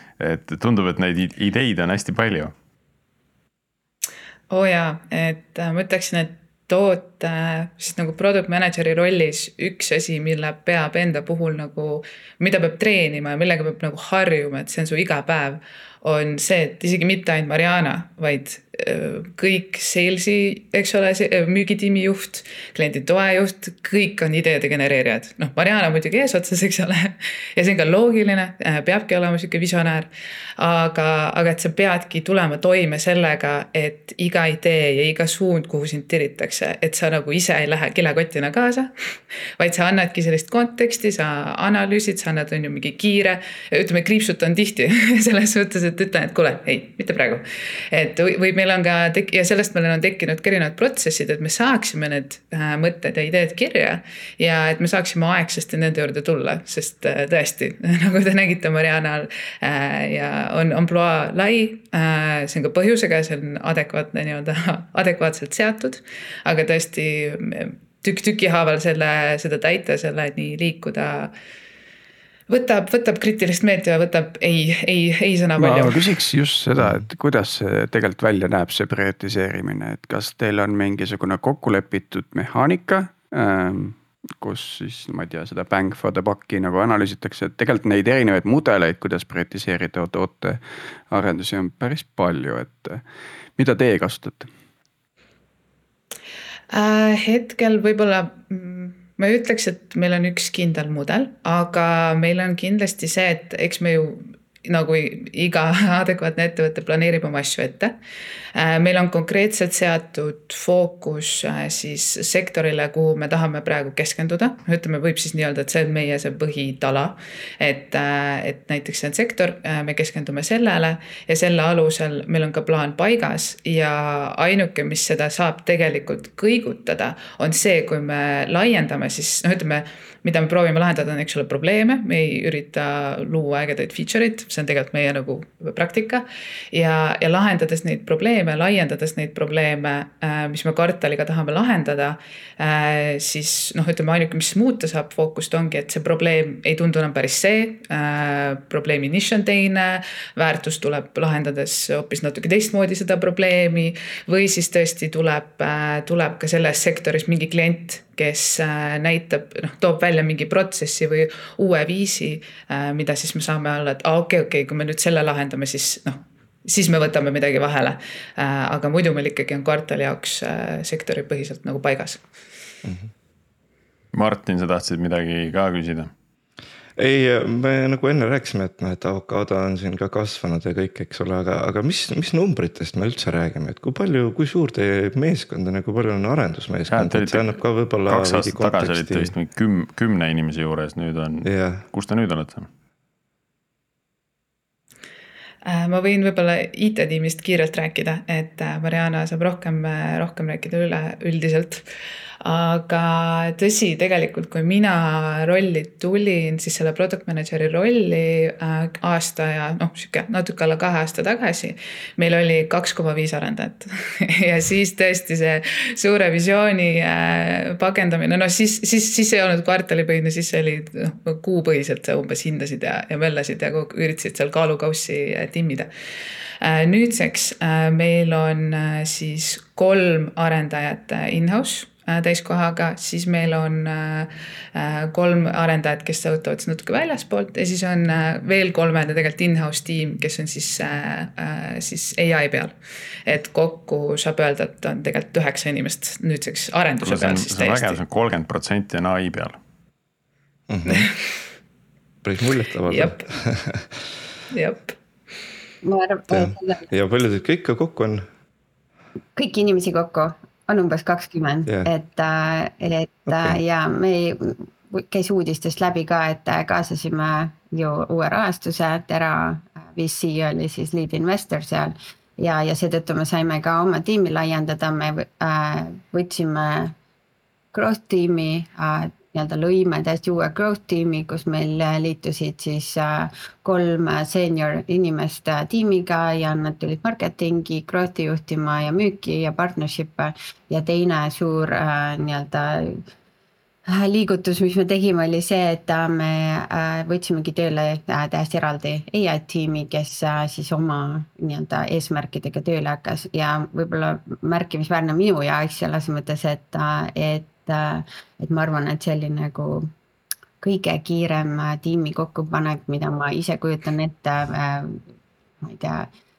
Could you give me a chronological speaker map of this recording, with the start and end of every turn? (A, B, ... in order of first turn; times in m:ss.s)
0:00.2-0:02.5 A
0:04.5-0:38.9 B
0:39.6-1:11.3 B
1:12.5-1:16.1 B
1:15.6-1:33.0 C
1:33.6-1:34.5 C
1:36.7-1:48.0 B
1:48.6-2:52.2 B
2:52.8-2:53.1 D
2:54.1-2:56.1 A
2:57.0-3:09.3 D
3:06.9-3:07.6 A
3:08.1-3:12.7 A
3:11.4-3:11.8 D
3:15.6-3:21.8 B
3:22.4-3:45.9 B
3:46.6-4:02.8 B
4:03.3-4:08.0 B
4:07.0-4:09.6 A
4:10.7-4:11.1 D
4:10.9-4:11.1 B
4:12.2-4:14.0 D
4:12.9-4:13.2 B
4:14.5-4:15.0 B
4:15.8-4:16.9 E
4:16.3-4:18.2 D
4:19.4-4:37.0 E
4:23.3-4:23.6 D
4:37.7-4:53.0 E
4:53.9-5:09.9 E
5:10.6-5:15.0 E
5:15.6-5:16.1 E